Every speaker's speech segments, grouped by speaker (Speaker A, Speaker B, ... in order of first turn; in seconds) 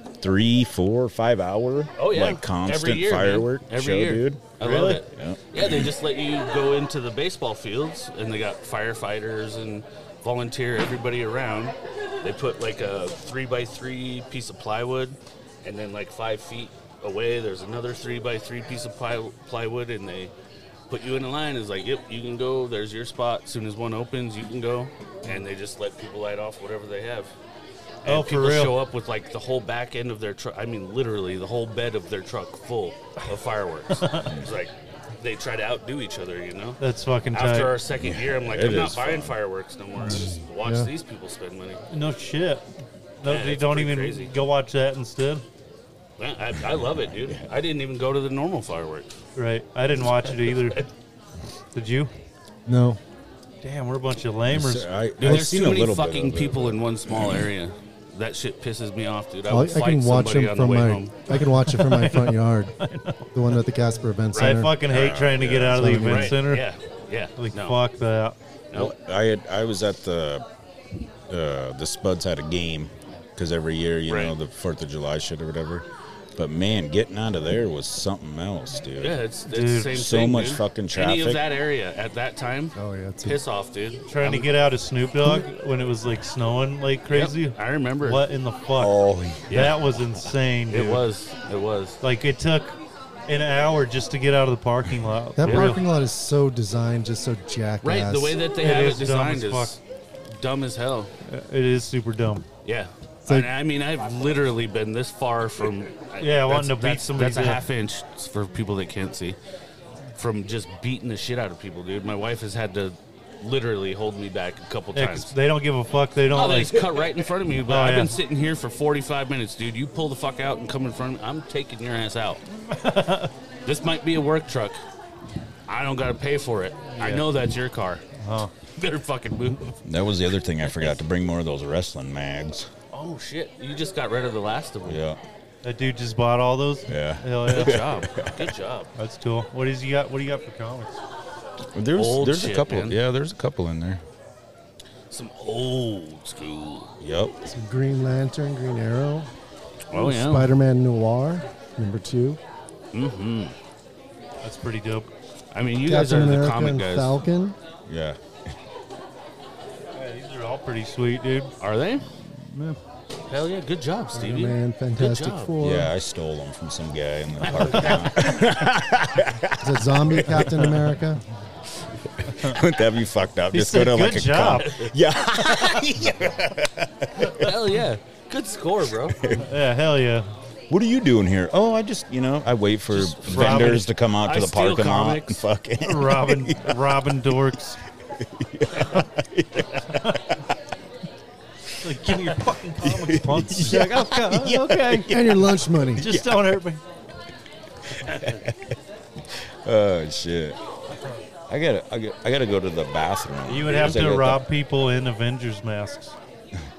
Speaker A: 0.2-4.4, 5.1-5.9, 37.9-39.3, 47.1-47.5, 54.5-57.5, 64.8-65.9, 68.7-70.5, 71.3-79.2, 79.9-81.4, 88.8-89.7, 129.8-132.7, 134.8-135.2, 136.9-138.4, 141.7-144.0, 147.0-147.3, 157.9-158.2, 165.6-170.4, 172.2-177.5, 179.1-179.5, 180.7-186.8, 188.1-190.3, 192.8-196.5, 197.9-198.8, 199.3-200.6, 201.5-204.4
Speaker B: 2.0-20.3, 20.9-27.3, 28.0-36.8, 37.3-41.8, 43.2-44.3, 46.2-49.1, 50.3-50.8, 55.2-61.1, 64.3-64.6, 66.0-67.8, 74.1-74.3, 79.0-84.5, 87.1-88.2, 89.5-89.8, 90.7-92.0, 95.4-95.7, 97.8-99.8, 100.3-101.1, 102.6-109.4, 110.2-115.3, 116.3-122.4, 123.7-124.8, 125.7-128.0, 128.7-129.8, 130.6-130.9, 132.9-135.0, 137.5-138.9, 141.9-143.0, 145.1-146.9, 149.9-150.5, 152.9-153.6, 155.5-157.1, 161.6-162.1, 163.3-165.5, 167.4-168.5, 174.6-174.9, 177.3-179.2, 182.9-185.4, 198.1-198.4
Speaker C: 4.6-5.0, 28.1-28.8, 34.0-34.3, 36.8-37.8, 41.9-42.6, 43.2-45.4, 49.4-50.9, 51.7-52.1, 53.6-54.9, 61.3-63.3, 64.3-66.7, 67.4-68.4, 79.5-79.9, 84.1-88.9, 89.5-91.0, 92.0-92.8, 93.3-95.8, 98.6-99.8, 101.2-102.5, 106.2-107.6, 114.9-117.0, 117.7-118.2, 122.5-123.3, 126.9-127.2, 128.2-128.5, 135.6-137.8, 138.9-141.0, 154.4-155.1, 159.9-161.5, 170.3-170.8, 173.5-174.7, 179.4-180.3, 182.9-183.9, 185.8-187.8, 191.8-195.1, 196.0-196.8, 203.5-206.2
Speaker D: 40.0-40.9, 52.6-53.0, 59.5-62.7, 63.3-64.8, 65.7-66.4, 82.8-83.4, 95.4-98.4, 147.4-149.3, 149.9-152.4, 155.8-157.6, 164.1-165.9, 169.6-171.2, 193.7-193.9, 195.1-196.1